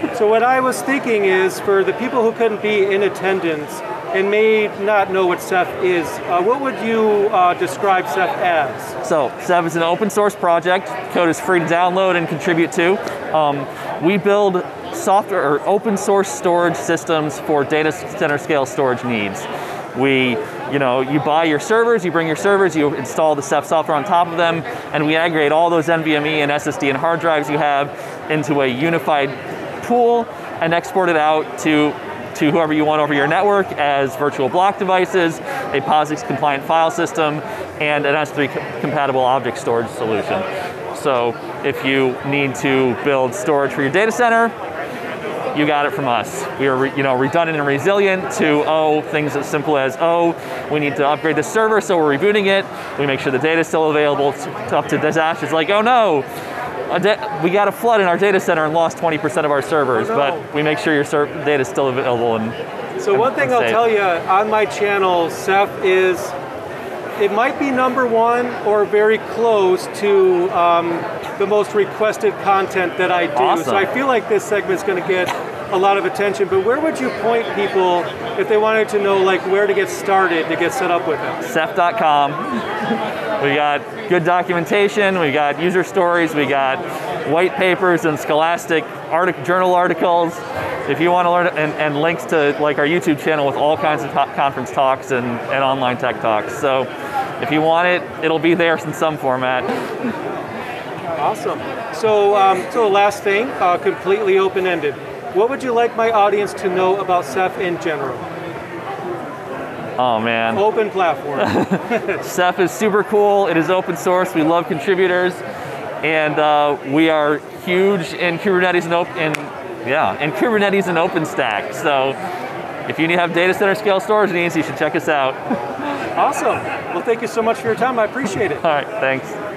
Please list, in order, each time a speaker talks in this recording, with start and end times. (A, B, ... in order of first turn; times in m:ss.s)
0:00.2-0:08.9 A
0:09.0-0:44.5 B
0:45.5-0:56.3 B
0:56.9-1:04.0 B
0:59.9-1:00.4 A
1:03.0-1:06.3 A
1:07.2-1:21.4 A
1:13.4-1:13.9 B
1:21.4-1:22.4 B
1:23.4-1:39.7 B
1:41.2-1:48.2 A
1:50.0-1:50.7 B
1:50.5-1:52.1 A
1:51.4-1:55.4 B
1:56.0-2:02.2 B
2:02.9-2:05.4 B
2:06.2-2:08.6 A
2:08.6-2:09.4 B